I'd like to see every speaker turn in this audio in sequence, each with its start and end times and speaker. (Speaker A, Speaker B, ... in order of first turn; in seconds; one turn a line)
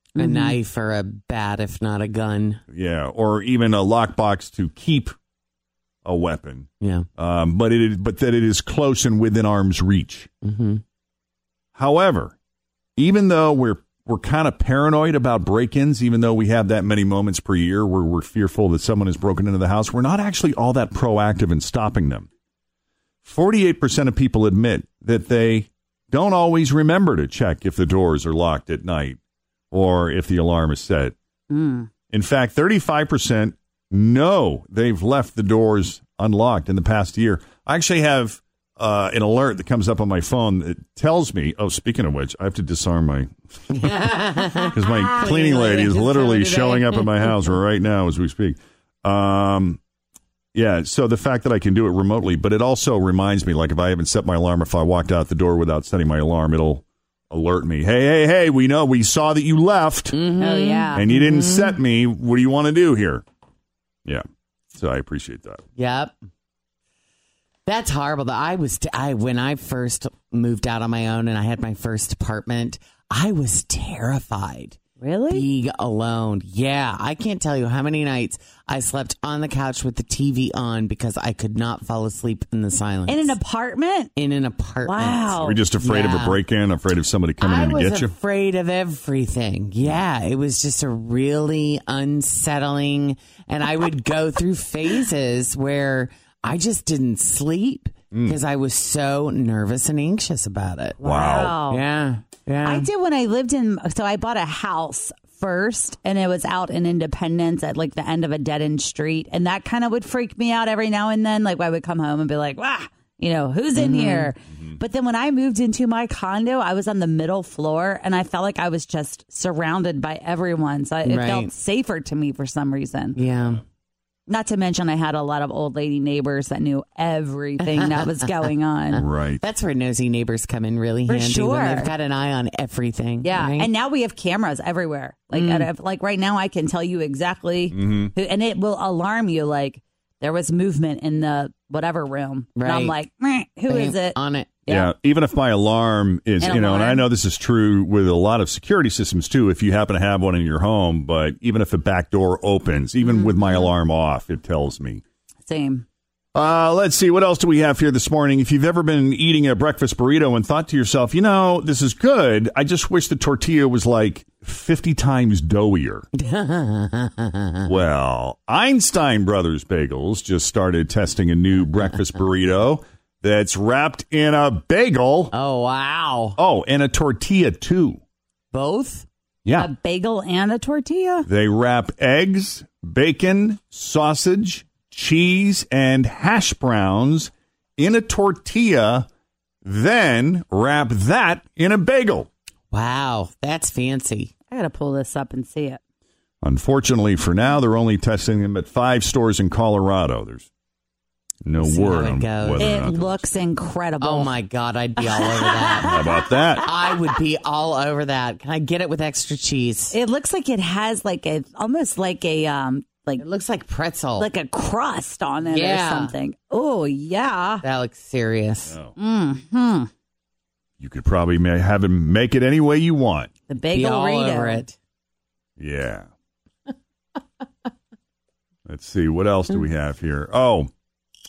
Speaker A: 0.2-0.6
Speaker B: 0.2-2.6
Speaker C: 2.7-5.1
Speaker C: 6.0-10.3
Speaker B: 6.8-7.1
Speaker B: 10.4-10.8
Speaker C: 11.8-12.3
Speaker C: 13.0-22.3
Speaker C: 23.2-29.2
Speaker C: 29.7-31.1
Speaker A: 31.5-31.9
Speaker C: 32.1-43.3
Speaker B: 43.7-47.3
Speaker C: 44.7-49.8
Speaker C: 50.5-60.2
Speaker B: 60.1-61.8
Speaker A: 60.4-61.0
Speaker C: 60.9-63.2
Speaker C: 64.7-65.6
Speaker B: 65.8-66.2
Speaker B: 67.7-74.8
Speaker A: 75.0-75.5
Speaker B: 75.3-83.4
Speaker A: 83.1-84.1
Speaker B: 84.2-86.4
Speaker A: 84.8-85.6
Speaker C: 85.4-88.1
Speaker B: 87.4-101.0
Speaker C: 98.1-98.4
Speaker A: 101.0-101.8
Speaker C: 101.0-101.6
Speaker B: 101.7-102.9
Speaker A: 102.6-123.2
Speaker B: 113.7-114.3
Speaker B: 121.0-121.5
Speaker B: 123.1-123.6
Speaker A: 124.3-129.1
Speaker B: 127.7-128.1
Speaker C: 128.9-129.4
Speaker B: 129.4-133.7
Speaker A: 131.1-131.9
Speaker A: 133.2-144.9
Speaker B: 135.3-135.7
Speaker C: 137.7-138.1
Speaker B: 142.6-142.9
Speaker B: 143.7-144.6
Speaker C: 144.7-155.0
Speaker A: 146.4-147.0
Speaker A: 153.0-153.7
Speaker A: 155.4-155.8
Speaker C: 156.3-166.1
Speaker B: 166.2-167.7
Speaker C: 167.7-175.3
Speaker B: 175.3-176.4
Speaker C: 176.4-178.0
Speaker B: 178.5-179.1
Speaker C: 179.4-179.7
Speaker A: 179.5-181.3
Speaker C: 181.2-189.1
Speaker C: 189.6-192.3
Speaker B: 192.7-194.3
Speaker A: 194.5-195.8
Speaker C: 196.4-200.5
Speaker C: 201.4-203.2
Speaker B: 201.6-202.9
Speaker A: 202.6-204.3
Speaker B: 204.0-206.0
Speaker A: 205.0-205.9
Speaker C: 205.8-206.7
Speaker B: 206.6-209.9
Speaker A: 209.9-213.2
Speaker B: 213.2-214.3
Speaker A: 214.2-217.6
Speaker B: 215.4-216.1
Speaker B: 217.6-218.7
Speaker C: 218.7-218.9
Speaker A: 219.0-219.9
Speaker C: 220.8-223.3
Speaker A: 223.5-224.6
Speaker B: 223.7-224.8
Speaker C: 225.6-226.1
Speaker C: 228.7-230.7